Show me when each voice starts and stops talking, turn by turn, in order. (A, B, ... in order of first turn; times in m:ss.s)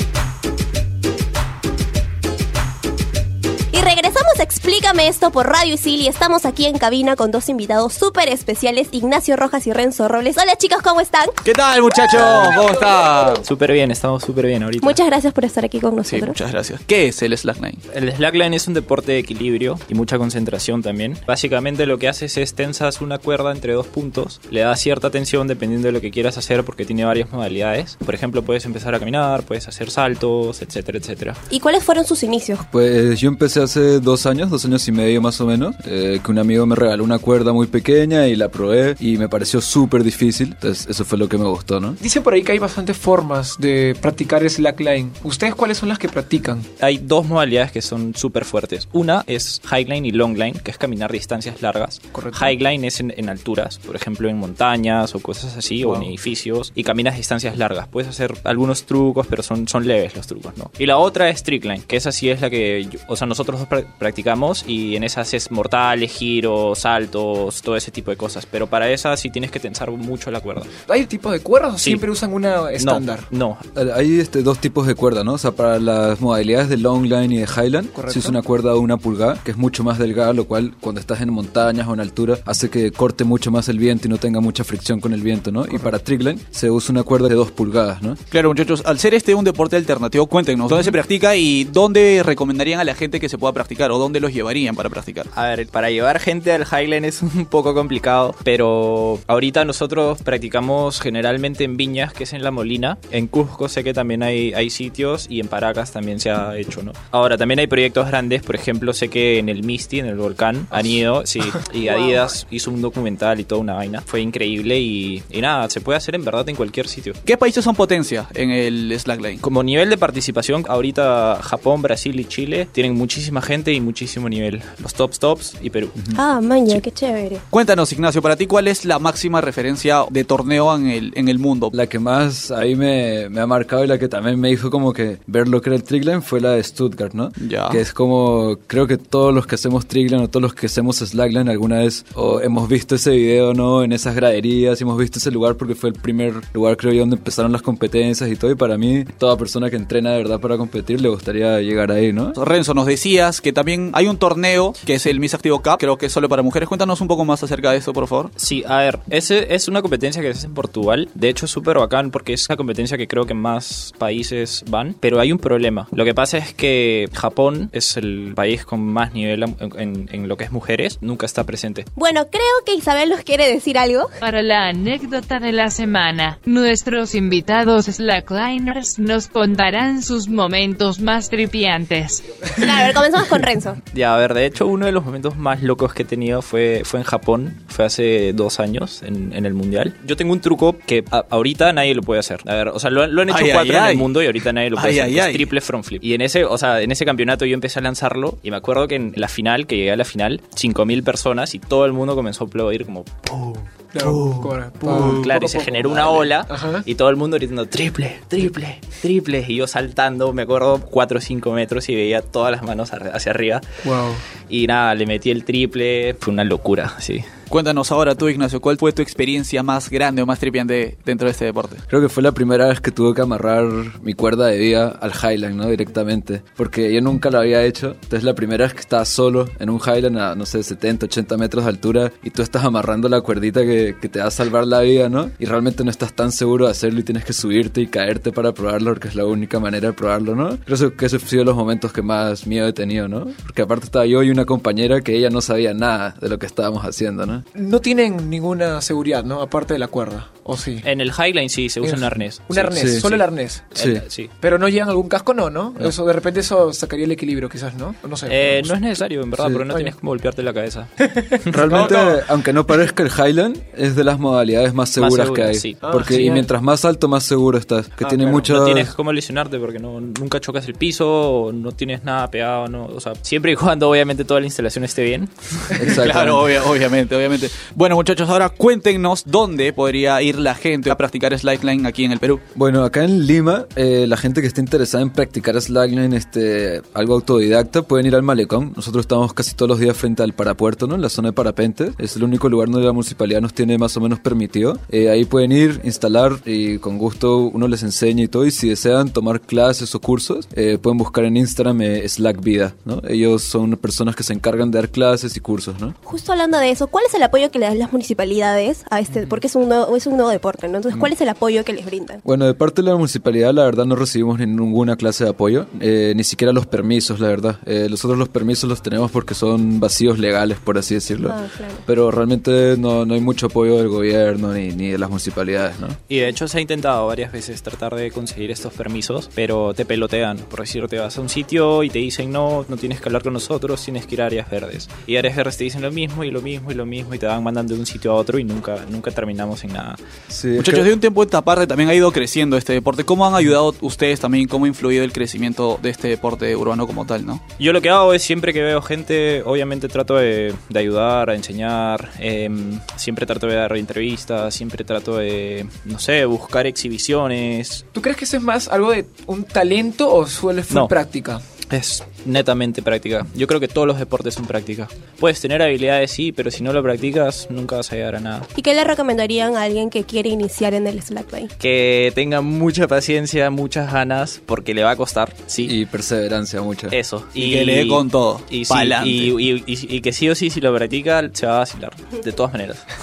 0:03.7-0:11.4 A
0:11.4-0:13.4 B
0:12.2-0:12.5 C
0:13.4-0:15.0 C
0:14.9-0:16.4 A
0:16.1-0:17.8 B
0:17.9-0:31.4 C
0:31.5-0:32.6 A
0:32.7-0:42.0 D
0:42.0-0:46.7 E
0:46.8-1:10.7 C
0:52.1-0:52.6 E
0:55.8-0:56.1 E
1:10.9-1:13.3 E
1:12.8-1:13.6 C
1:13.8-1:28.2 D
1:17.9-1:18.4 E
1:28.3-1:35.3 B
1:30.7-1:30.9 E
1:35.3-1:57.2 C
1:51.9-1:52.2 A
1:57.2-1:59.4 B
1:59.4-2:06.0 C
2:06.2-2:07.4 A
2:07.5-2:11.7 B
2:11.7-2:32.4 D
2:17.4-2:17.8 B
2:32.4-2:38.3 B
2:38.4-2:51.9 C
2:52.0-2:54.1 A
2:54.2-3:02.2 F
3:02.6-3:03.8 A
3:03.9-3:23.7 C
3:13.3-3:14.2 B
3:14.7-3:15.5 B
3:23.9-3:26.9 E
3:24.0-3:25.2 B
3:24.9-3:33.6 C
3:33.8-3:34.2 E
3:34.5-3:37.3 C
3:37.5-3:41.8 B
3:41.9-4:07.4 D
4:07.6-4:10.8 E
4:10.8-4:14.3 C
4:11.8-4:13.7 E
4:12.8-4:13.1 D
4:13.8-4:14.0 D
4:14.4-4:18.7 E
4:18.3-4:20.9 C
4:19.4-4:19.6 D
4:21.1-4:21.9 E
4:21.4-4:21.8 C
4:21.5-4:28.9 D
4:25.0-4:26.4 C
4:25.8-4:26.4 E
4:28.0-4:28.4 E
4:28.4-4:35.9 C
4:35.8-4:36.5 D
4:35.8-4:42.4 B
4:42.5-5:06.0 D
5:06.1-5:12.2 A
5:12.2-5:26.0 D
5:21.2-5:21.8 A
5:26.1-5:40.0 C
5:40.3-5:40.9 D
5:40.6-5:47.4 B
5:47.6-5:57.8 C
5:57.9-6:01.4 E
6:00.7-6:00.9 C
6:01.7-6:08.5 C
6:08.6-6:11.4 A
6:11.6-6:15.7 C
6:15.6-6:17.0 D
6:16.9-6:22.8 C
6:17.3-6:19.3 B